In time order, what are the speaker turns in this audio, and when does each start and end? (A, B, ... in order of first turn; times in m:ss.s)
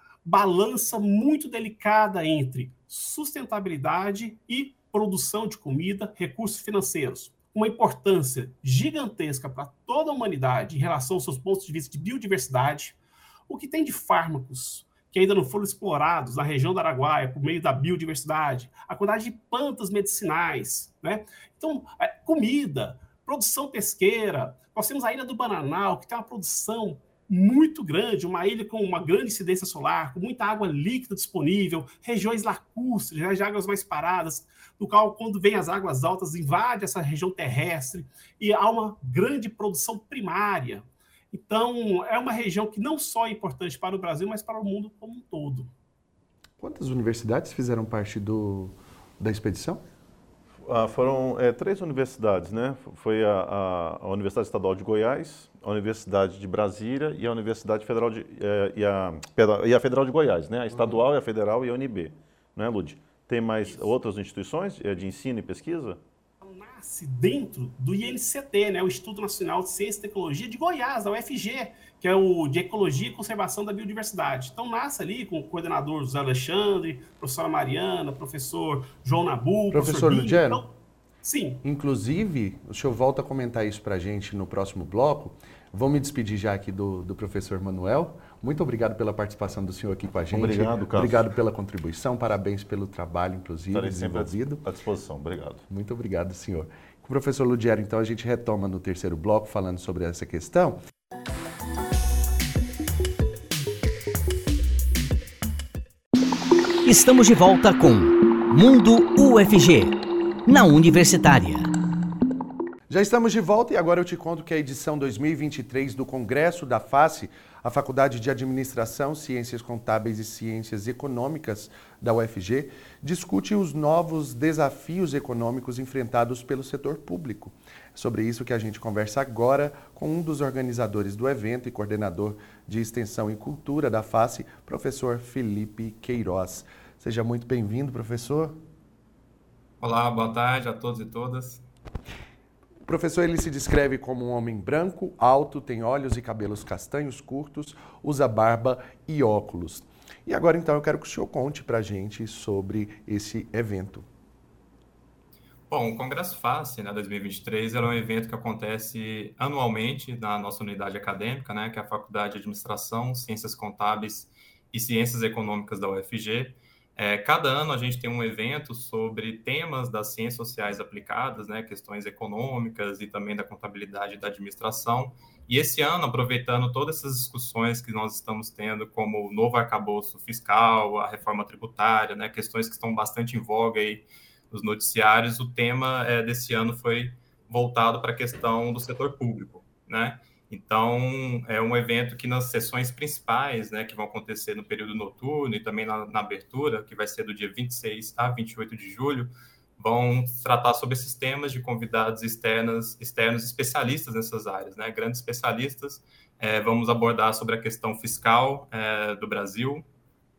0:00.2-0:13.0 A
0:13.5-0:45.7 A
0:46.6-0:49.8 B
0:50.6-1:06.0 C
1:06.4-1:20.7 A
1:19.7-1:20.6 B
1:21.2-1:21.6 A
1:21.6-1:34.6 B
1:30.3-1:31.2 C
1:33.7-1:35.6 C
1:35.7-1:40.8 B
1:46.8-1:51.7 D
1:52.9-2:18.6 B
2:19.8-2:21.6 E
2:22.9-2:34.1 B
2:35.7-3:29.8 E